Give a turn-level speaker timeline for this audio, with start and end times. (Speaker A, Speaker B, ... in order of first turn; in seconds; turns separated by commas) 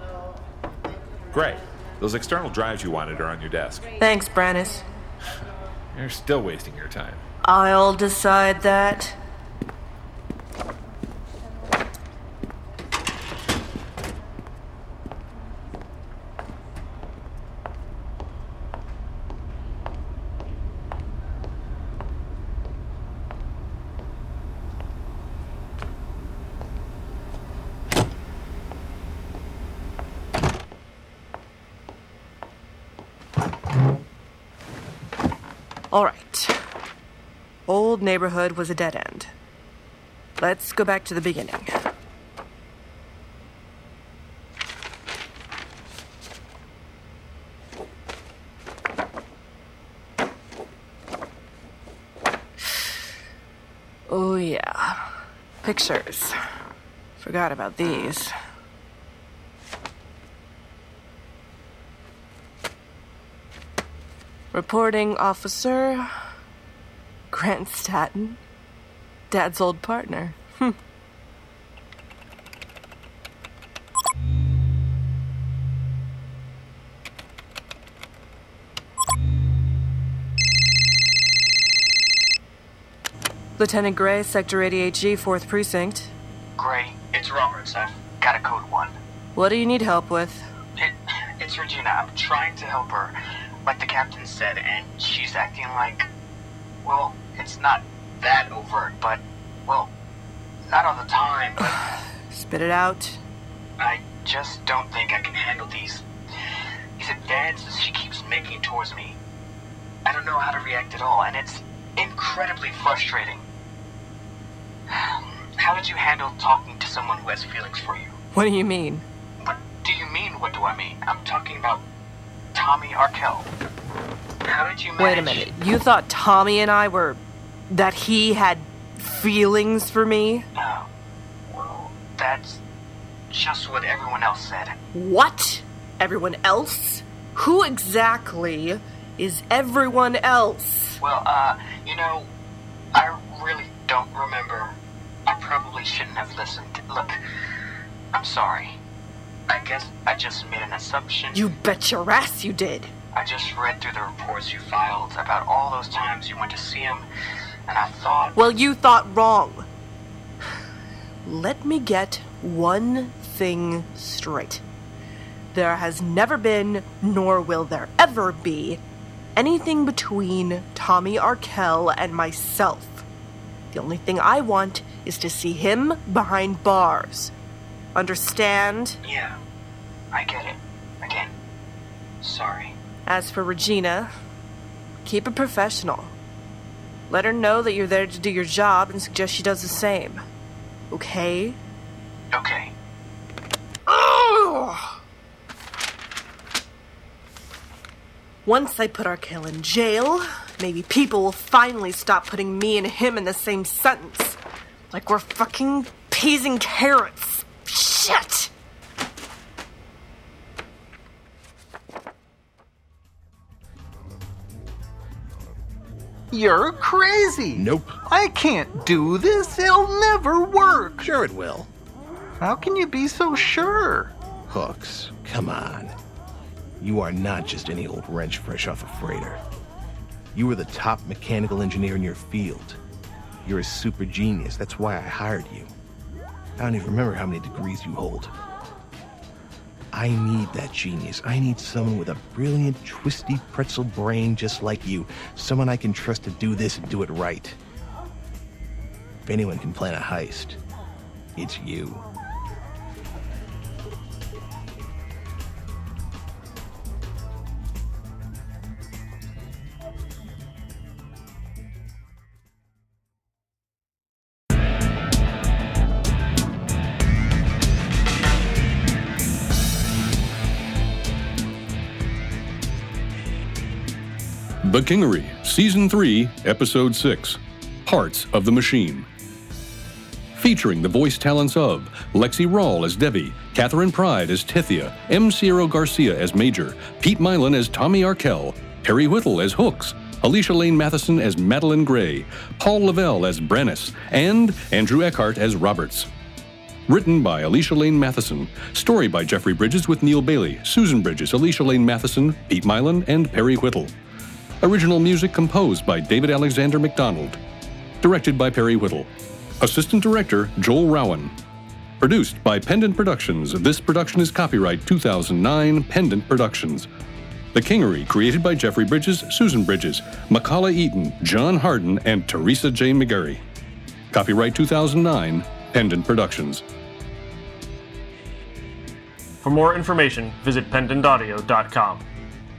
Speaker A: 1.3-3.8, Speaker B: 4.0-4.9, Speaker A: 5.9-7.2, Speaker B: 7.4-9.2, Speaker B: 35.9-36.6, Speaker B: 37.7-39.3, Speaker B: 40.4-41.7, Speaker B: 54.1-55.0, Speaker B: 55.6-56.4, Speaker B: 57.2-58.3, Speaker B: 64.5-66.1, Speaker B: 67.3-68.4, Speaker B: 69.3-70.7, Speaker B: 83.6-86.1, Speaker C: 86.6-88.9, Speaker B: 89.3-90.5, Speaker C: 91.4-93.1, Speaker C: 93.7-96.0, Speaker C: 96.8-99.9, Speaker C: 100.7-101.5, Speaker B: 101.6-103.2, Speaker C: 103.8-106.0, Speaker C: 107.0-109.2, Speaker C: 110.1-113.4, Speaker C: 115.6-118.1, Speaker B: 118.3-119.0, Speaker C: 119.7-121.8, Speaker C: 122.5-123.4, Speaker C: 124.5-125.0, Speaker B: 125.0-130.4, Speaker C: 131.6-132.6, Speaker C: 133.3-134.6, Speaker B: 134.9-141.0, Speaker C: 141.0-142.2, Speaker C: 143.0-144.7, Speaker C: 145.3-147.0, Speaker C: 148.1-148.7, Speaker C: 149.5-151.3, Speaker B: 151.3-152.9, Speaker C: 153.2-157.0, Speaker C: 157.7-158.3, Speaker B: 158.3-159.6, Speaker B: 161.2-164.6, Speaker B: 165.5-168.8, Speaker B: 169.3-173.0, Speaker B: 173.7-177.3, Speaker B: 177.9-179.0, Speaker B: 183.1-184.1, Speaker B: 185.0-186.1, Speaker B: 187.1-190.2, Speaker B: 190.9-191.6, Speaker B: 193.9-194.9, Speaker B: 198.4-204.4, Speaker B: 204.9-208.5, Speaker D: 216.3-221.1, Speaker E: 217.5-217.9, Speaker E: 221.0-221.7, Speaker D: 222.4-224.1, Speaker E: 224.5-225.9, Speaker E: 226.8-229.4, Speaker E: 230.3-232.8, Speaker E: 233.4-235.7, Speaker E: 236.6-238.3, Speaker E: 239.9-247.6, Speaker E: 249.2-250.6, Speaker E: 251.3-252.0, Speaker F: 274.6-279.1, Speaker F: 280.3-296.1, Speaker F: 296.9-303.9, Speaker F: 304.6-307.4, Speaker F: 308.0-309.1, Speaker F: 309.6-311.3, Speaker F: 312.0-316.9, Speaker F: 317.5-323.4, Speaker F: 324.1-326.6, Speaker G: 329.4-332.0